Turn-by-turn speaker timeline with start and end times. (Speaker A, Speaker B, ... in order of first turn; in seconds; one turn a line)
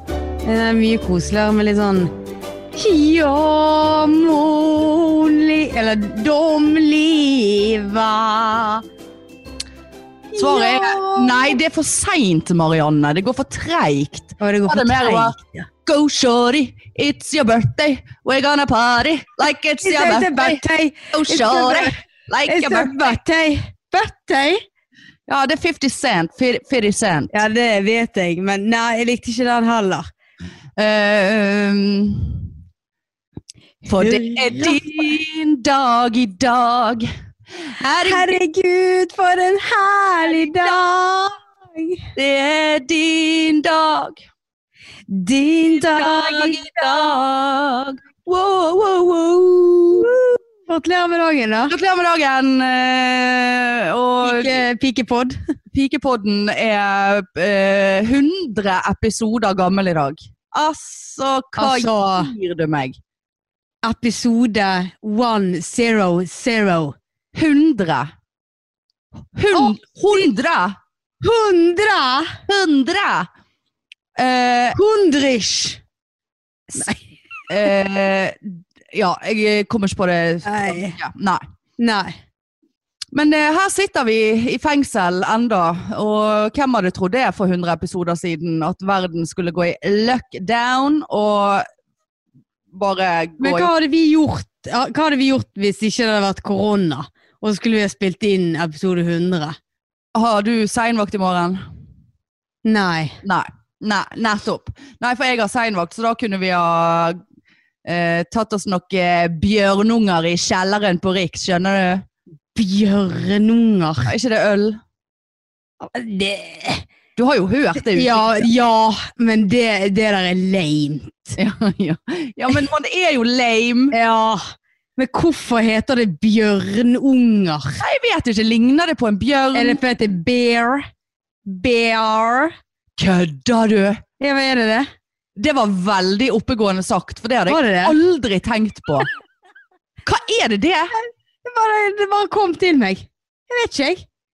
Speaker A: 0.4-2.1
Speaker A: 2.7-8.8
Speaker A: 10.3-11.6
Speaker B: 10.4-23.1
Speaker A: 14.4-15.7
Speaker A: 19.8-24.6
Speaker B: 25.3-27.3
Speaker A: 27.3-30.1
Speaker B: 30.8-32.5
Speaker B: 33.9-37.1
Speaker A: 33.9-35.1
Speaker B: 37.7-38.3
Speaker A: 38.0-42.0
Speaker B: 40.2-40.8
Speaker B: 42.1-44.2
Speaker A: 45.1-47.2
Speaker B: 45.7-50.1
Speaker A: 50.6-51.7
Speaker B: 51.7-54.6
Speaker A: 54.2-55.4
Speaker B: 55.7-63.0
Speaker A: 61.6-62.3
Speaker A: 63.8-67.0
Speaker B: 67.3-68.1
Speaker B: 69.3-70.8
Speaker A: 71.2-72.4
Speaker B: 72.5-73.3
Speaker B: 74.2-74.8
Speaker A: 74.7-75.8
Speaker A: 76.7-77.1
Speaker B: 77.5-81.4
Speaker A: 80.4-81.0
Speaker A: 81.8-82.2
Speaker B: 83.1-91.7
Speaker B: 92.7-93.7
Speaker A: 93.4-99.6
Speaker B: 100.1-101.6
Speaker A: 102.6-103.2
Speaker B: 103.2-107.2
Speaker B: 107.8-112.0
Speaker A: 112.5-114.1
Speaker B: 114.0-114.8
Speaker A: 115.8-116.8
Speaker B: 117.2-118.5
Speaker A: 117.9-121.4
Speaker B: 121.4-123.9
Speaker A: 123.9-127.8
Speaker B: 127.8-129.8
Speaker A: 129.5-130.9
Speaker A: 131.4-132.5
Speaker B: 133.0-134.0
Speaker A: 134.2-134.9
Speaker B: 135.4-139.1
Speaker A: 137.5-137.9
Speaker B: 140.0-140.9
Speaker A: 141.4-144.0